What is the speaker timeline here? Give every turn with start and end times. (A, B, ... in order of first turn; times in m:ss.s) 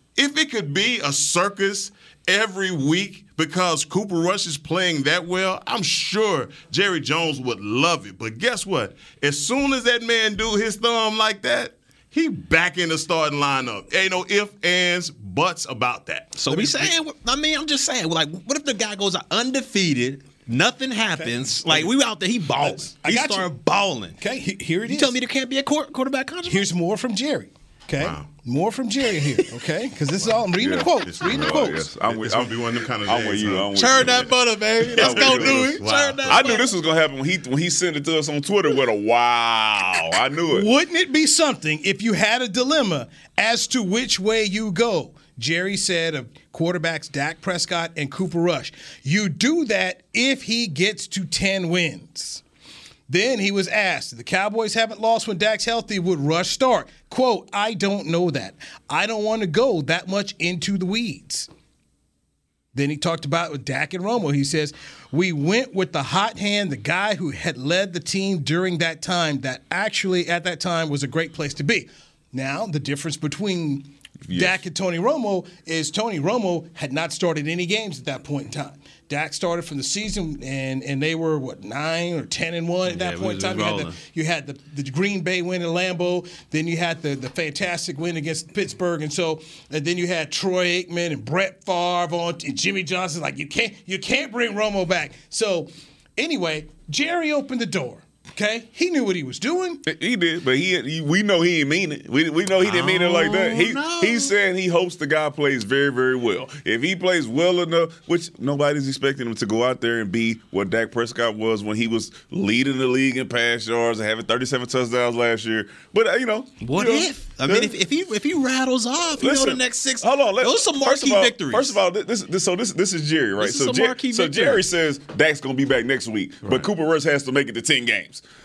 0:00.1-0:16.9 A
0:16.4-0:24.2 B
0:21.2-0:21.9 C
0:22.6-0:23.6 C
0:24.2-0:25.2 C
0:24.9-0:26.7 B
0:26.4-0:31.9 C
0:28.0-0:28.3 A
0:30.6-0:34.4 D
0:31.0-0:33.8 A
0:33.8-0:36.7 B
0:34.9-0:40.7 D
0:34.9-0:36.7 A
0:40.5-0:52.4 C
0:53.1-1:01.5 C
1:02.7-1:39.8 C
1:14.2-1:14.6 D
1:22.9-1:24.0 B
1:39.9-1:57.7 D
1:42.6-1:44.3 B
1:56.6-2:01.8 B
1:59.2-2:08.2 D
2:03.4-2:04.6 B